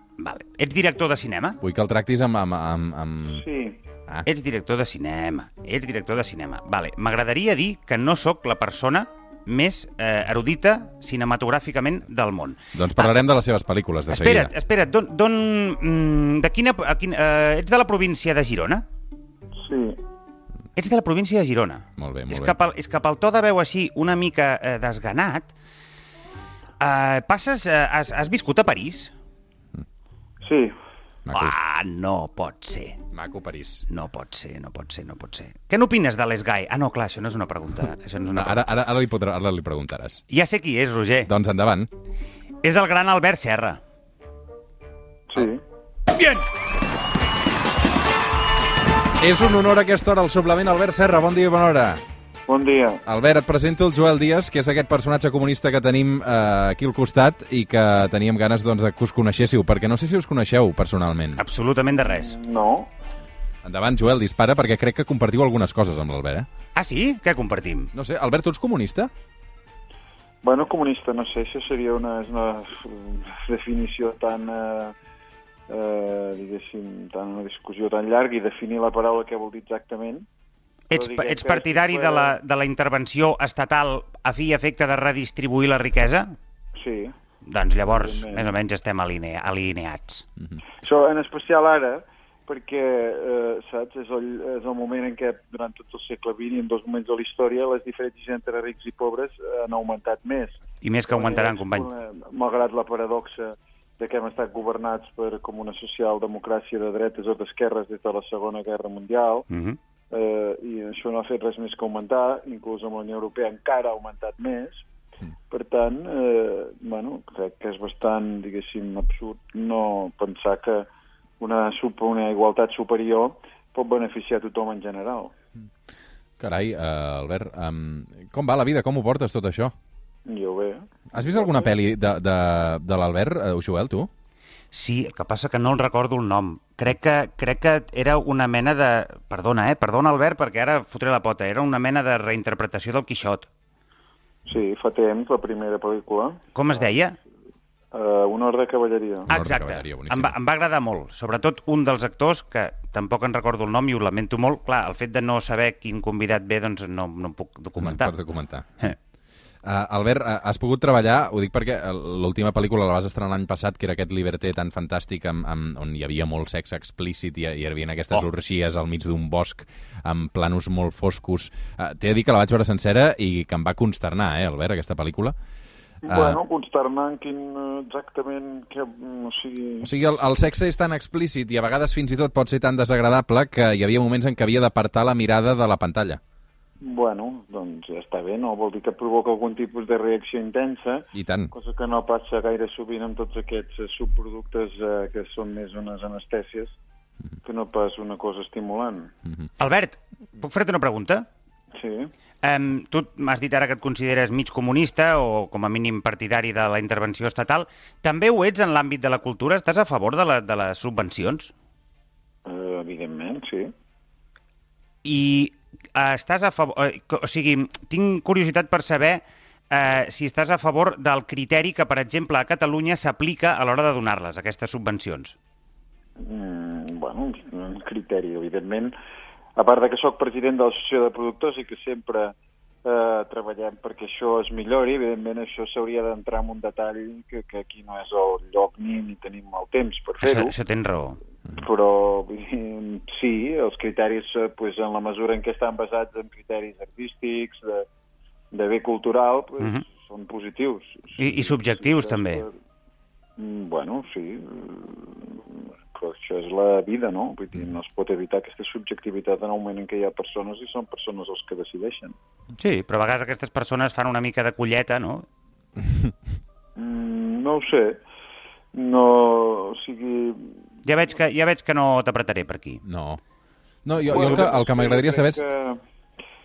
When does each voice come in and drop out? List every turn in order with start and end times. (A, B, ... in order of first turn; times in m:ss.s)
0:00.2-0:01.6 A
0:01.6-0:03.4 B
0:03.3-0:03.8 C
0:04.2-0:13.1 A
0:12.7-0:14.5 B
0:14.1-0:18.8 A
0:19.6-0:20.0 C
0:20.8-0:25.5 A
0:22.0-0:22.5 B
0:26.8-0:29.1 A
0:30.4-0:30.7 C
0:31.3-0:31.5 B
0:31.3-0:33.0 A
0:33.1-0:33.8 B
0:33.9-0:38.6 A
0:38.3-0:40.2 B
0:40.3-0:41.3 A
0:41.3-0:41.9 B
0:42.6-0:43.8 A
0:45.3-0:45.6 C
0:46.1-0:46.4 B
0:49.2-0:52.0 B
0:52.5-0:53.0 C
0:53.0-1:01.4 B
1:01.4-1:02.4 A
1:02.1-1:02.9 C
1:03.6-1:06.5 B
1:06.7-1:07.9 A
1:07.9-1:09.1 B
1:10.4-1:14.9 C
1:15.7-1:20.2 C
1:20.9-1:26.3 A
1:20.9-1:22.3 C
1:26.7-1:27.1 C
1:27.4-1:30.2 A
1:27.9-1:28.5 C
1:30.8-1:49.5 C
1:40.8-1:41.9 A
1:49.5-1:49.8 A
1:50.1-1:54.8 C
1:55.5-2:00.9 C
2:01.4-2:05.3 C
2:06.4-2:09.7 B
2:10.2-2:11.7 C
2:11.1-2:14.1 B
2:14.7-2:23.5 A
2:24.4-2:26.4 C
2:26.5-2:27.2 A
2:27.9-2:29.3 C
2:29.3-2:38.1 A
2:29.3-2:30.3 B
2:37.8-2:38.9 B
2:39.6-2:55.3 B
2:56.0-2:59.9 C
2:56.0-2:56.4 B
2:59.8-3:06.2 B
3:06.8-3:16.8 C
3:11.1-3:11.5 B
3:17.4-3:19.1 C
3:19.6-3:21.3 A
3:21.7-3:22.1 C
3:22.4-3:31.5 A
3:32.4-3:33.7 C
3:35.0-3:45.4 A
3:46.2-3:48.9 C
3:49.6-4:00.5 C
4:00.2-4:01.2 A
4:01.5-4:07.8 C
4:08.5-4:12.5 C
4:11.2-4:12.4 A
4:13.4-4:22.2 C
4:22.6-4:25.2 A
4:25.8-4:26.1 B
4:26.8-4:28.0 C
4:28.7-4:30.6 C
4:30.8-4:32.8 A
4:32.8-4:33.2 B
4:33.8-4:35.4 B
4:34.0-4:35.8 C